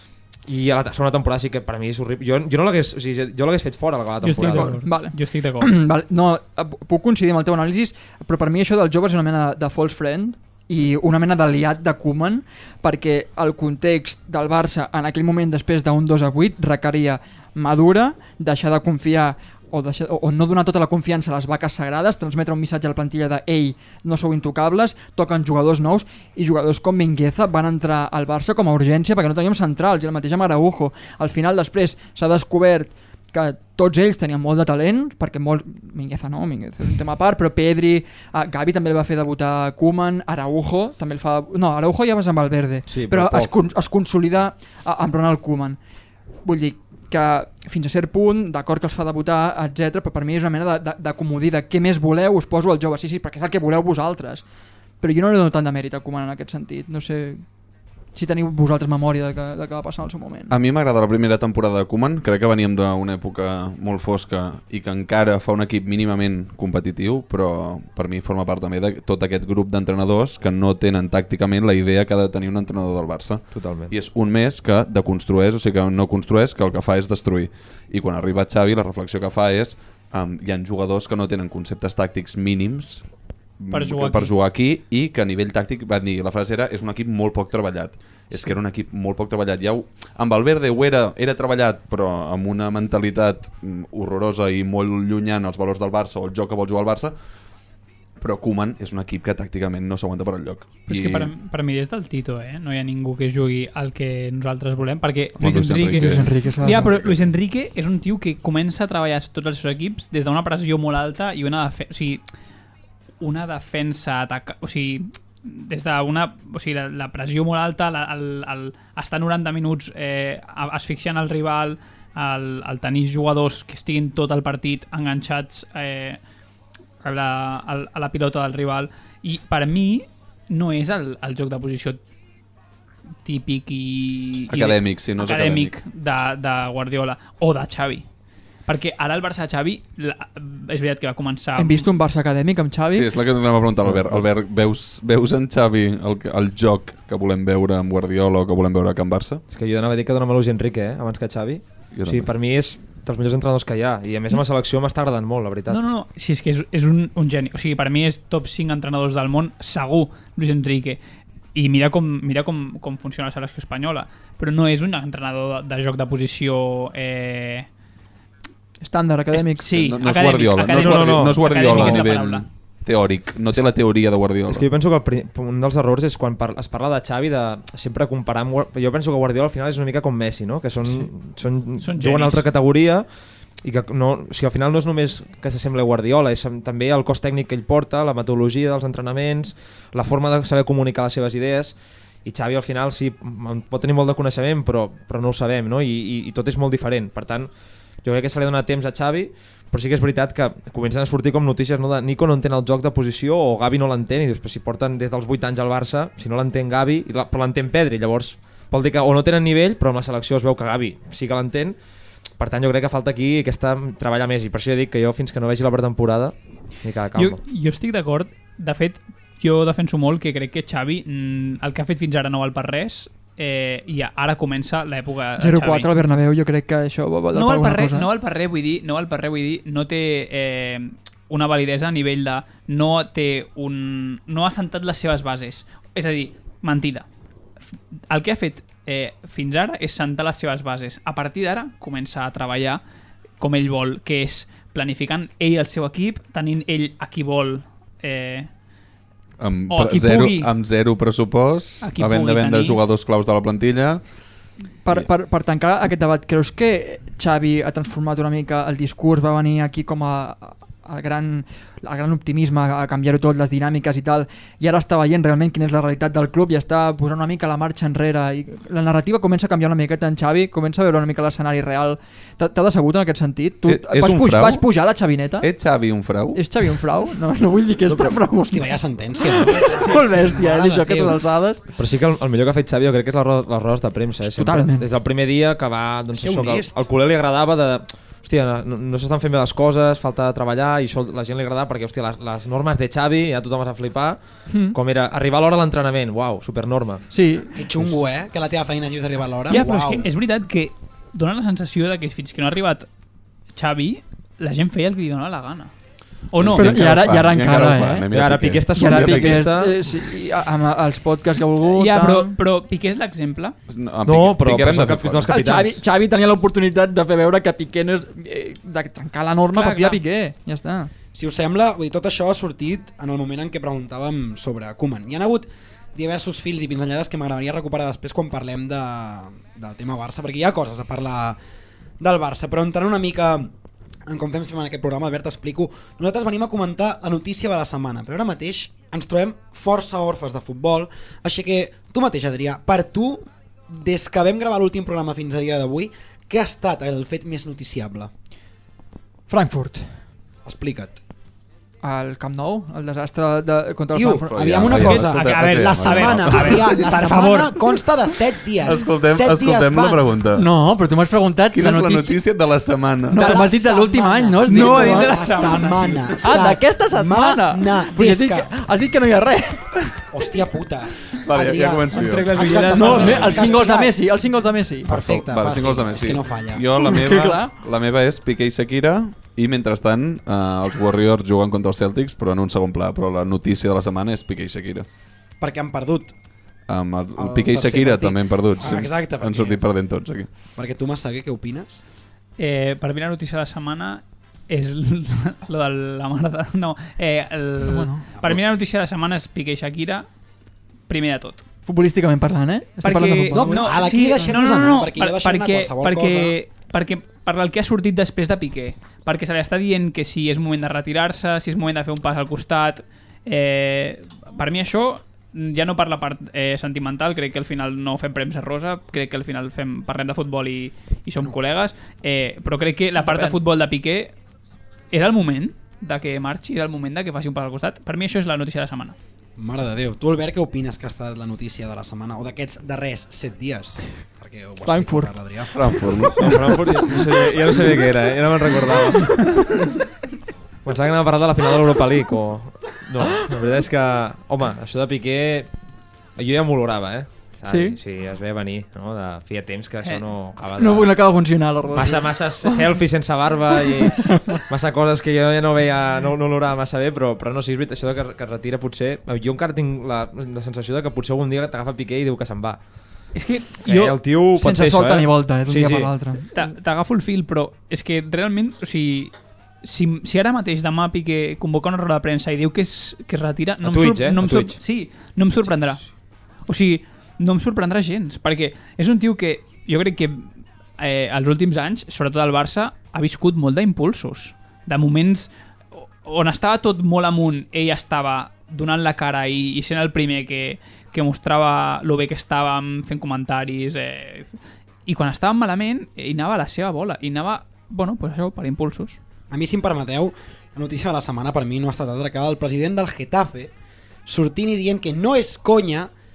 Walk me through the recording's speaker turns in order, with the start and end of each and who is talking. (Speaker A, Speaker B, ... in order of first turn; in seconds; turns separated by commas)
Speaker A: 0.5-4.8, Speaker B: 4.2-5.7, Speaker C: 4.3-45.8, Speaker A: 42.9-43.5, Speaker C: 46.5-54.4, Speaker C: 55.0-57.4, Speaker C: 58.1-60.5, Speaker D: 60.5-83.1, Speaker A: 73.5-73.9, Speaker D: 83.6-97.2, Speaker B: 83.7-84.3, Speaker D: 98.2-101.3, Speaker B: 100.9-112.2, Speaker D: 105.4-107.3, Speaker C: 105.8-106.9, Speaker B: 113.2-126.2, Speaker B: 127.0-132.0, Speaker B: 133.2-138.1, Speaker D: 134.5-135.8, Speaker B: 138.7-141.9, Speaker C: 141.6-143.1, Speaker D: 142.9-149.4, Speaker A: 149.5-155.8, Speaker D: 151.9-152.3, Speaker B: 155.7-161.0, Speaker B: 161.6-167.7, Speaker C: 168.8-169.8, Speaker B: 169.3-172.5, Speaker D: 169.8-174.7, Speaker A: 170.6-172.1, Speaker A: 174.5-183.1, Speaker B: 181.8-182.4, Speaker A: 183.6-197.5, Speaker A: 198.0-211.8, Speaker A: 212.4-217.4, Speaker B: 217.2-225.9, Speaker C: 225.4-228.1, Speaker B: 227.3-237.1, Speaker B: 238.1-242.8, Speaker B: 243.4-248.5, Speaker D: 249.4-254.0, Speaker B: 249.7-250.5, Speaker B: 251.8-252.8, Speaker C: 254.8-275.6, Speaker D: 273.6-274.6, Speaker D: 275.4-276.6, Speaker C: 276.3-281.6, Speaker E: 278.5-281.2, Speaker A: 281.8-294.2, Speaker C: 284.2-284.9, Speaker E: 286.1-286.8, Speaker C: 294.5-294.8, Speaker A: 294.7-297.1, Speaker C: 297.1-297.5, Speaker E: 297.6-300.1, Speaker B: 299.5-302.9, Speaker B: 303.5-305.7, Speaker B: 306.3-306.9, Speaker D: 306.4-309.5, Speaker C: 306.5-308.1, Speaker A: 308.1-309.8, Speaker C: 308.7-312.4, Speaker B: 311.6-313.6, Speaker D: 313.7-315.4, Speaker A: 314.1-315.8, Speaker C: 315.3-320.9, Speaker B: 319.5-320.0, Speaker E: 321.1-331.4, Speaker E: 332.0-333.5, Speaker E: 334.1-348.1, Speaker C: 349.3-350.0, Speaker E: 350.4-351.0, Speaker C: 351.8-354.9, Speaker E: 353.9-360.1, Speaker D: 354.3-356.7, Speaker B: 354.7-357.6, Speaker D: 358.6-360.5, Speaker C: 360.4-362.2, Speaker D: 361.5-363.4, Speaker C: 363.1-370.1, Speaker E: 363.2-368.5, Speaker B: 364.5-365.8, Speaker E: 370.1-374.0, Speaker D: 371.2-373.3, Speaker B: 371.9-373.5, Speaker C: 372.6-375.0, Speaker E: 374.9-376.6, Speaker D: 374.9-384.9, Speaker C: 376.8-377.5, Speaker E: 385.4-386.1, Speaker D: 386.7-390.3, Speaker E: 387.2-389.6, Speaker E: 390.6-391.8, Speaker B: 392.4-400.1, Speaker C: 397.6-398.1, Speaker B: 400.9-401.4, Speaker C: 401.7-404.4, Speaker B: 402.8-424.1, Speaker E: 403.3-406.4, Speaker C: 423.0-423.4, Speaker B: 424.9-429.0, Speaker E: 429.4-435.5, Speaker C: 434.6-435.2, Speaker D: 435.5-436.4, Speaker A: 436.2-439.4, Speaker A: 440.6-445.5, Speaker A: 446.2-451.1, Speaker C: 447.5-447.8, Speaker C: 450.6-452.7, Speaker A: 451.7-462.6, Speaker C: 453.6-454.4, Speaker B: 463.1-464.0, Speaker A: 463.6-465.9, Speaker C: 464.4-466.4, Speaker B: 466.2-475.8, Speaker A: 473.6-474.6, Speaker B: 476.5-494.3, Speaker B: 494.9-499.0, Speaker E: 499.3-503.5, Speaker E: 504.1-505.9